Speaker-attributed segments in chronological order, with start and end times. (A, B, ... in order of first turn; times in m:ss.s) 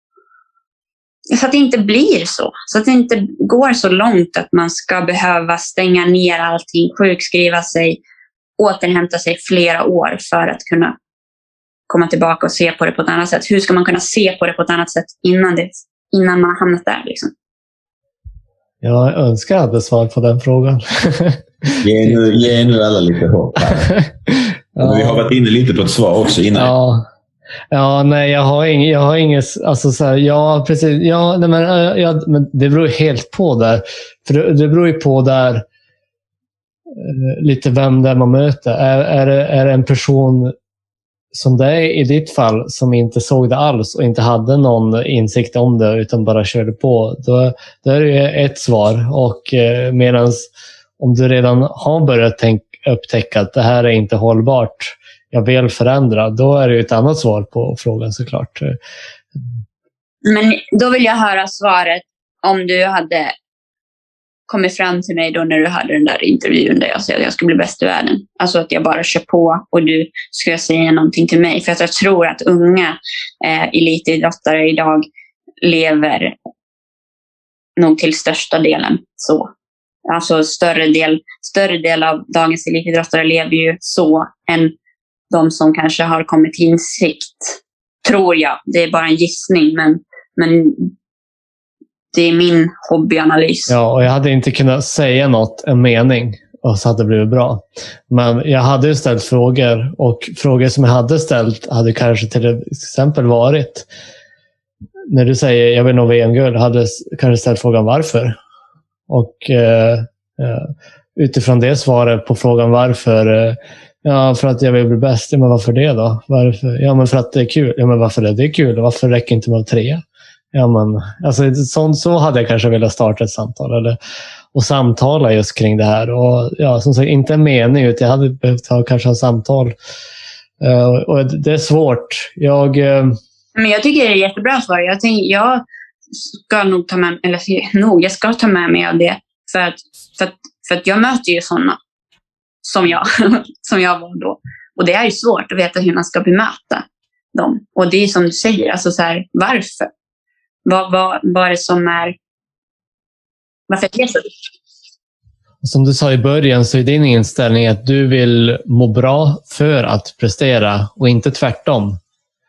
0:01.3-0:08.0 A
0:08.6-0:10.9 A
0:11.9-0:17.3 A
0:18.8-0:22.2 B
0:21.8-0:23.9 C
0:23.8-0:25.2 B
0:24.8-0:26.7 C
0:26.6-0:27.1 B
0:27.7-0:35.6 B
0:37.0-0:40.5 B
0:41.3-0:50.5 B
0:51.0-0:58.8 B
1:00.2-1:03.3 A
1:04.5-1:15.1 A
1:15.6-1:16.4 A
1:17.8-1:19.5 A
1:20.1-1:24.7 A
1:25.3-1:30.9 A
1:32.1-1:33.7 A
1:33.7-1:43.9 B
1:45.1-1:48.4 B
1:49.1-2:04.0 B
2:04.5-2:09.8 B
2:10.6-2:13.2 B
2:13.5-2:21.8 A
2:22.6-2:29.9 A
2:30.6-2:32.1 A
2:33.7-2:34.3 A
2:35.6-2:42.0 B